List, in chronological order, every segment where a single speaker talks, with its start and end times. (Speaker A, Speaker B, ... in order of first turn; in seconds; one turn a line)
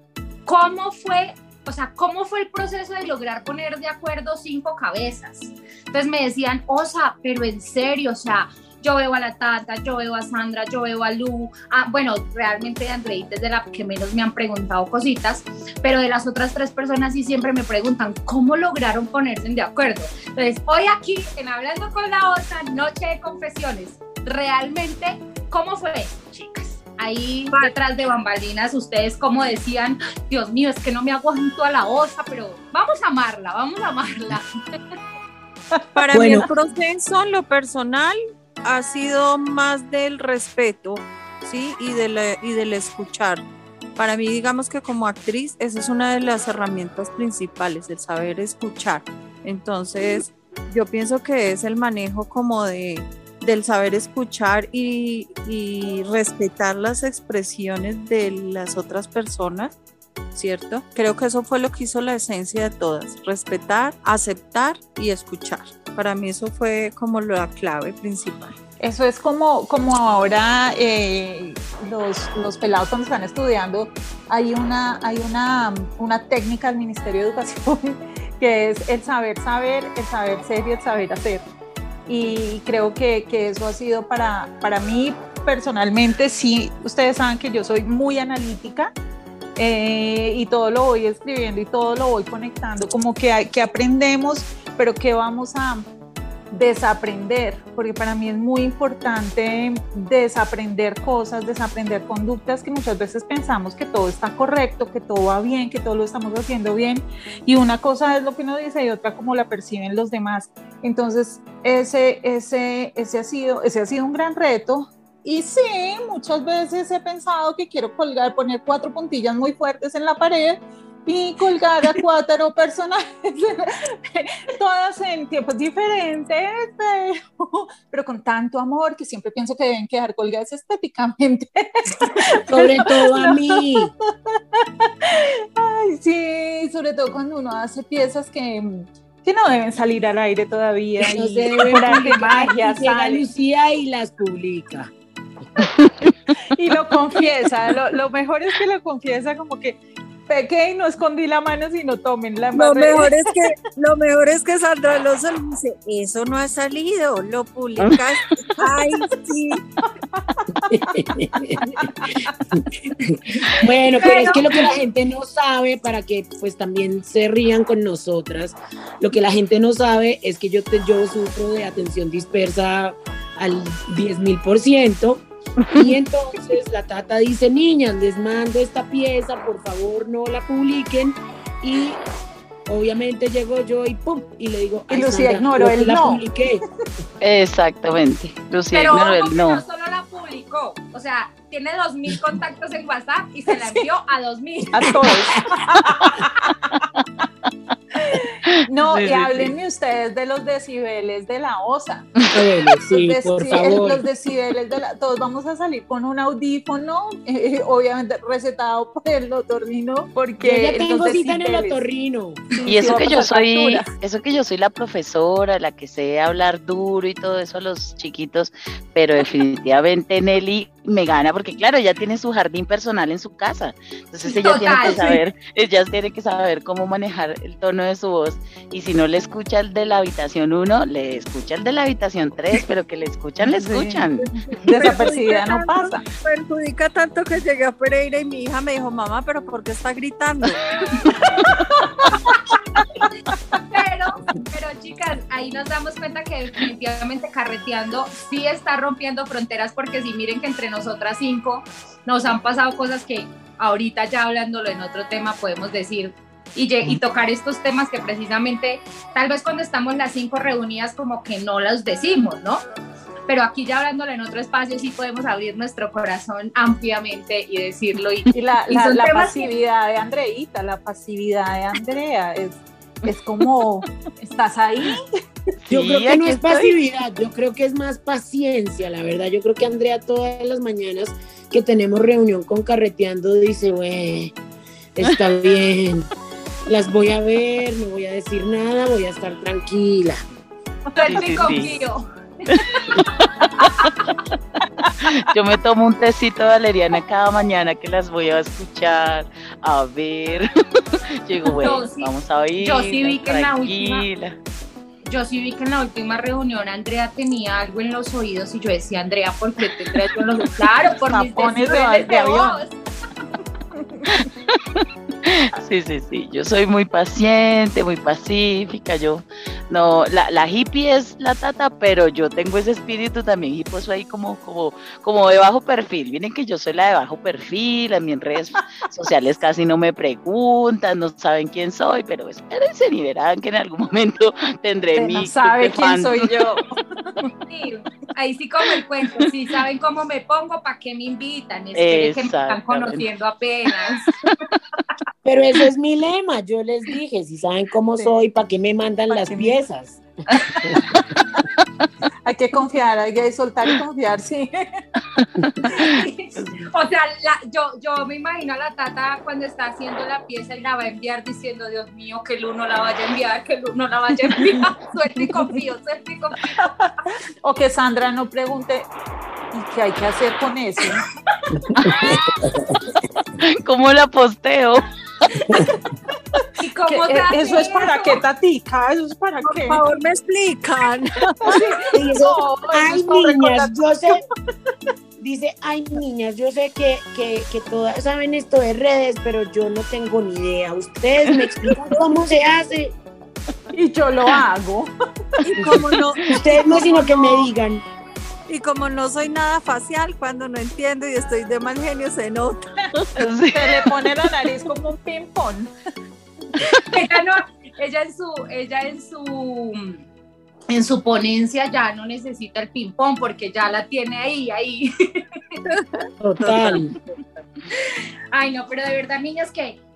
Speaker A: 0.5-34.5
Speaker B: 36.0-43.5
Speaker C: 36.1-36.5
Speaker B: 44.0-59.8
Speaker B: 60.3-68.6
Speaker D: 68.8-81.5
Speaker D: 82.1-88.9
Speaker D: 89.6-95.9
Speaker D: 96.5-133.6
Speaker C: 132.5-133.9
Speaker D: 134.6-143.2
Speaker C: 141.0-144.9
Speaker E: 145.6-146.1
Speaker D: 146.5-149.8
Speaker D: 150.3-153.2
Speaker B: 152.5-159.6
Speaker D: 160.3-160.7
Speaker C: 160.7-161.6
Speaker D: 161.6-162.4
Speaker C: 162.5-182.0
Speaker A: 164.0-164.5
Speaker C: 182.7-186.6
Speaker D: 184.9-186.2
Speaker E: 187.2-189.6
Speaker A: 188.7-194.9
Speaker D: 194.7-196.5
Speaker E: 196.0-197.0
Speaker D: 198.1-202.1
Speaker E: 198.3-199.5
Speaker C: 202.3-204.1
Speaker D: 202.9-211.8
Speaker C: 210.4-212.5
Speaker D: 212.5-213.9
Speaker E: 212.7-234.4
Speaker A: 224.2-225.2
Speaker D: 233.4-234.1
Speaker B: 234.5-240.6
Speaker D: 234.6-236.0
Speaker D: 241.4-243.0
Speaker A: 243.7-262.6
Speaker A: 263.3-269.5
Speaker D: 268.3-275.1
Speaker E: 275.7-276.7
Speaker C: 275.7-284.4
Speaker C: 284.9-286.1
Speaker C: 286.7-290.2
Speaker A: 290.9-293.1
Speaker E: 291.1-291.8
Speaker E: 292.5-294.2
Speaker E: 295.0-304.4
Speaker A: 301.6-304.1
Speaker A: 305.1-312.7
Speaker D: 311.1-312.6
Speaker D: 313.8-314.2
Speaker E: 314.1-336.4
Speaker D: 334.9-336.8
Speaker A: 337.5-344.1
Speaker E: 341.8-343.0
Speaker C: 345.2-350.0
Speaker D: 349.1-349.6
Speaker C: 350.6-350.9
Speaker D: 352.3-354.8
Speaker E: 355.2-355.9
Speaker D: 355.7-355.9
Speaker A: 355.8-366.7
Speaker D: 366.6-366.9
Speaker D: 367.4-368.9
Speaker D: 369.5-371.1
Speaker C: 371.7-372.8
Speaker E: 373.4-375.5
Speaker D: 376.4-379.8
Speaker A: 376.6-378.2
Speaker B: 379.4-381.6
Speaker D: 381.3-383.8
Speaker C: 381.9-384.2
Speaker C: 385.2-392.9
Speaker D: 393.7-394.9
Speaker B: 395.4-397.2
Speaker C: 396.3-397.8
Speaker D: 396.5-396.9
Speaker B: 398.5-402.7
Speaker E: 403.2-403.9
Speaker D: 403.2-405.7
Speaker A: 406.8-410.1
Speaker A: 410.7-415.6
Speaker B: 415.7-417.0
Speaker C: 416.2-416.9
Speaker A: 417.7-419.8